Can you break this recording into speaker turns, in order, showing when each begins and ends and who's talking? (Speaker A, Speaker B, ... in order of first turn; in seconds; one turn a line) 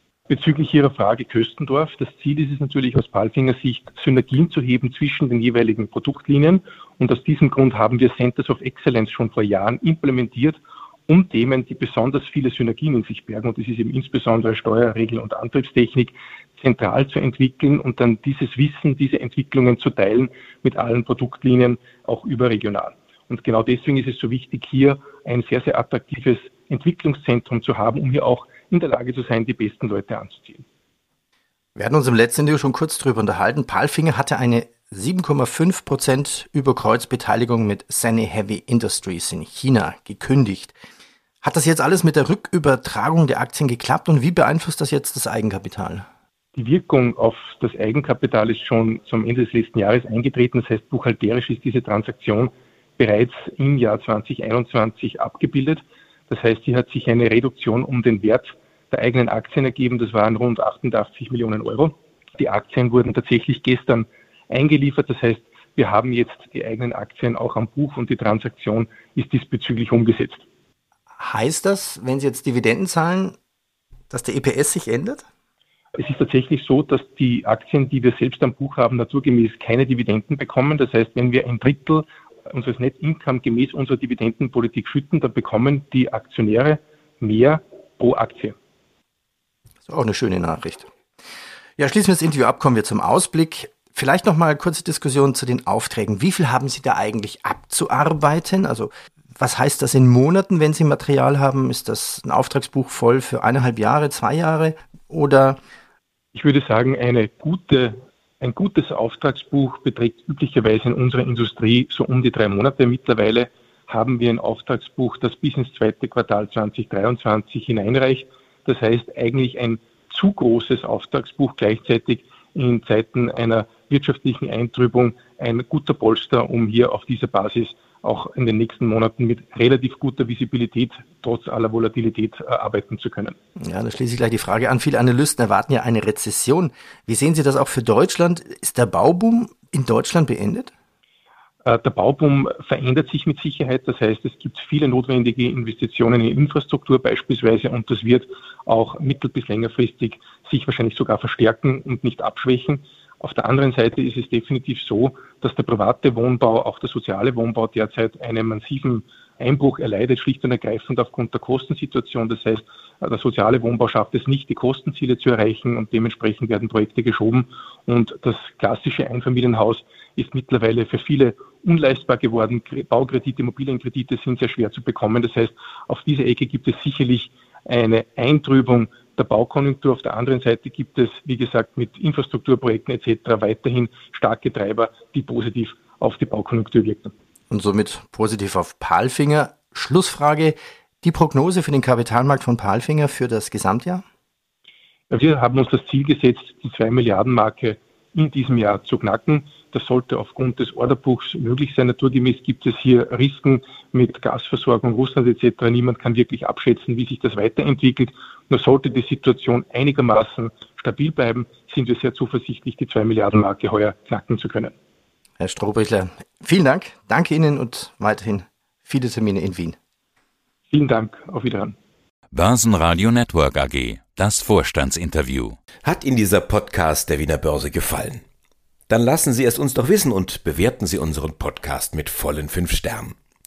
Speaker A: 0.3-30.6
Speaker B: 31.8-40.8
Speaker B: 41.4-46.0
Speaker A: 46.5-70.4
Speaker B: 71.2-73.4
Speaker B: 74.1-75.2
Speaker A: 75.9-88.5
Speaker B: 89.9-90.9
Speaker B: 91.8-105.6
Speaker A: 106.3-133.4
Speaker B: 133.6-140.7
Speaker A: 141.6-187.1
Speaker B: 187.5-194.0
Speaker A: 195.1-214.7
Speaker B: 215.4-219.8
Speaker A: 220.7-221.8
Speaker C: 222.3-225.6
Speaker D: 225.8-228.2
Speaker D: 228.9-233.2